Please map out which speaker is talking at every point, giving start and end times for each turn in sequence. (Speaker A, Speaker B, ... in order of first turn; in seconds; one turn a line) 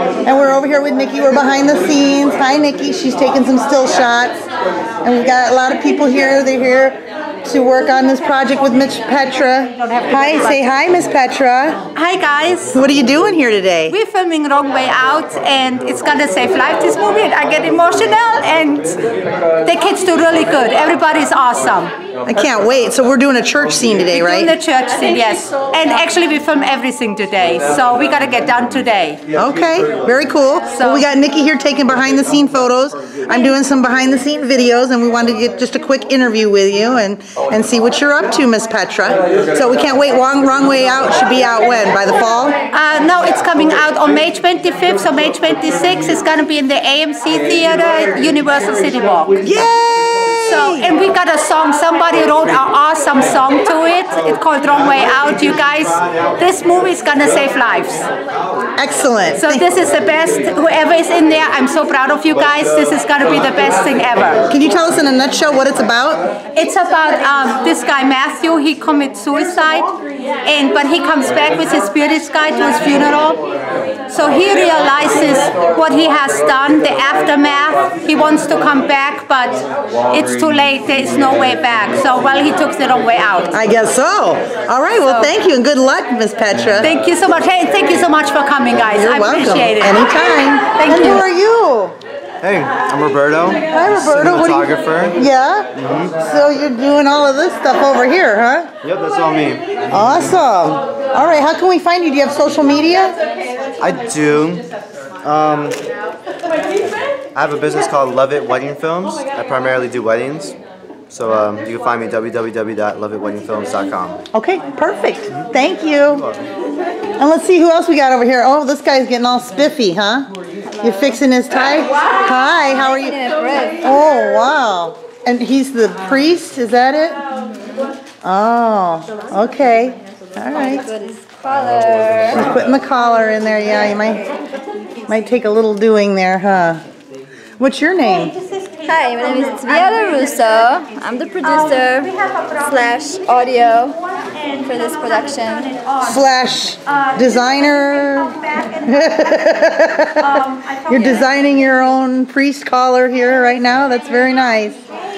Speaker A: 0.2-4.3
Speaker A: 5.0-11.8
Speaker B: 11.9-12.8
Speaker A: 12.7-13.9
Speaker B: 13.9-19.0
Speaker B: 19.6-21.9
Speaker A: 22.2-24.6
Speaker B: 24.1-29.2
Speaker A: 29.3-42.5
Speaker B: 30.7-31.0
Speaker B: 42.7-49.5
Speaker A: 49.4-50.9
Speaker B: 50.4-58.0
Speaker A: 58.8-59.6
Speaker B: 59.4-64.4
Speaker A: 64.5-66.2
Speaker B: 66.5-69.9
Speaker B: 70.4-73.4
Speaker B: 74.1-83.5
Speaker A: 83.5-86.9
Speaker B: 86.8-90.0
Speaker A: 88.9-92.0
Speaker B: 90.7-91.2
Speaker C: 92.4-95.2
Speaker A: 93.7-94.6
Speaker A: 95.2-98.7
Speaker C: 95.8-96.1
Speaker C: 98.8-99.8
Speaker A: 99.9-103.2
Speaker C: 103.8-104.6
Speaker C: 105.2-105.8
Speaker C: 107.3-110.5
Speaker C: 111.1-114.2
Speaker A: 114.3-116.2
Speaker C: 116.1-116.4
Speaker A: 117.2-120.3
Speaker A: 120.8-123.2
Speaker D: 122.8-123.8
Speaker A: 123.8-127.2
Speaker A: 128.2-130.9
Speaker D: 130.6-132.4
Speaker A: 132.3-134.3
Speaker A: 135.1-136.8
Speaker A: 137.6-138.3
Speaker D: 138.8-144.0
Speaker D: 144.6-145.7
Speaker A: 146.0-154.8